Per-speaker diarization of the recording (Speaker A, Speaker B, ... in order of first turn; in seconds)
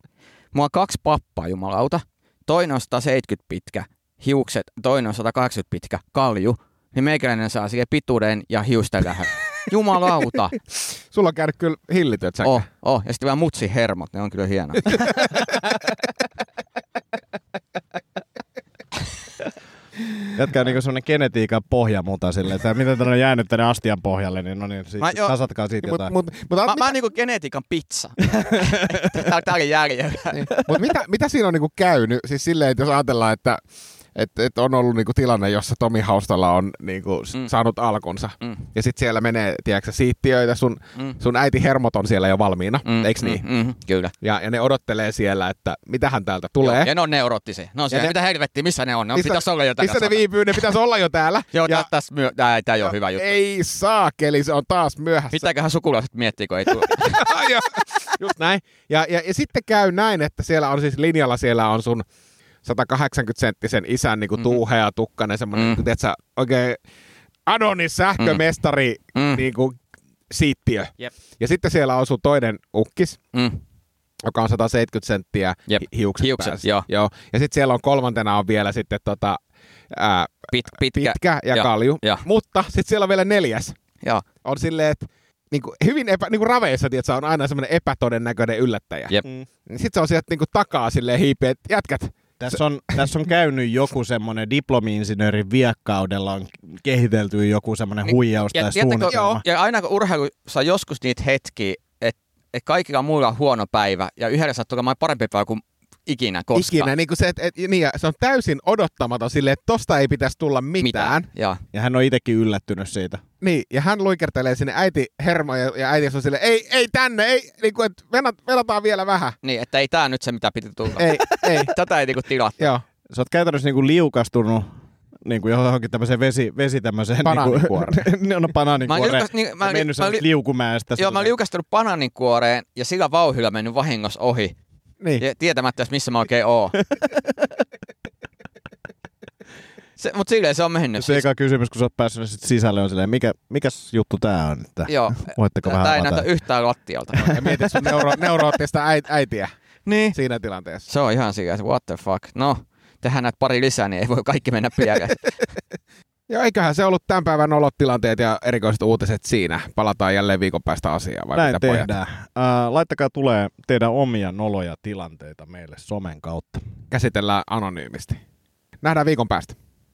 Speaker A: 0.5-10.6, 12.4-15.2, 25.0-25.4, 26.6-30.6, 38.4-38.7, 42.9-44.1, 46.6-50.7, 51.5-53.3, 55.3-57.2, 65.5-65.8, 69.2-69.4, 73.3-73.6, 75.7-76.9, 80.5-82.2, 98.1-106.9, 110.8-111.6, 119.4-122.7, 128.9-130.3, 131.0-134.6, 135.2-136.8, 140.0-141.2, 144.9-148.1, 149.9-150.2, 150.9-155.2
Speaker B: 11.1-12.6, 15.0-15.4, 25.8-26.9, 30.4-33.6, 34.1-43.4, 44.2-46.9, 49.1-51.9, 52.9-55.5, 56.8-62.0, 62.6-66.8, 67.5-69.8, 70.3-73.2, 74.2-79.4, 79.9-83.8, 84.4-89.2, 89.7-93.1, 99.1-99.4, 106.5-111.3, 113.4-119.4, 121.0-121.7, 122.6-122.8, 127.2-128.1, 147.2-149.5, 150.1-150.9, 156.3-161.9, 166.9-168.2, 168.8-169.6
Speaker C: 20.4-26.1, 28.4-29.3, 92.4-99.4, 111.7-113.2, 123.1-124.7, 125.2-131.3, 137.1-137.3, 141.0-146.3, 161.3-166.6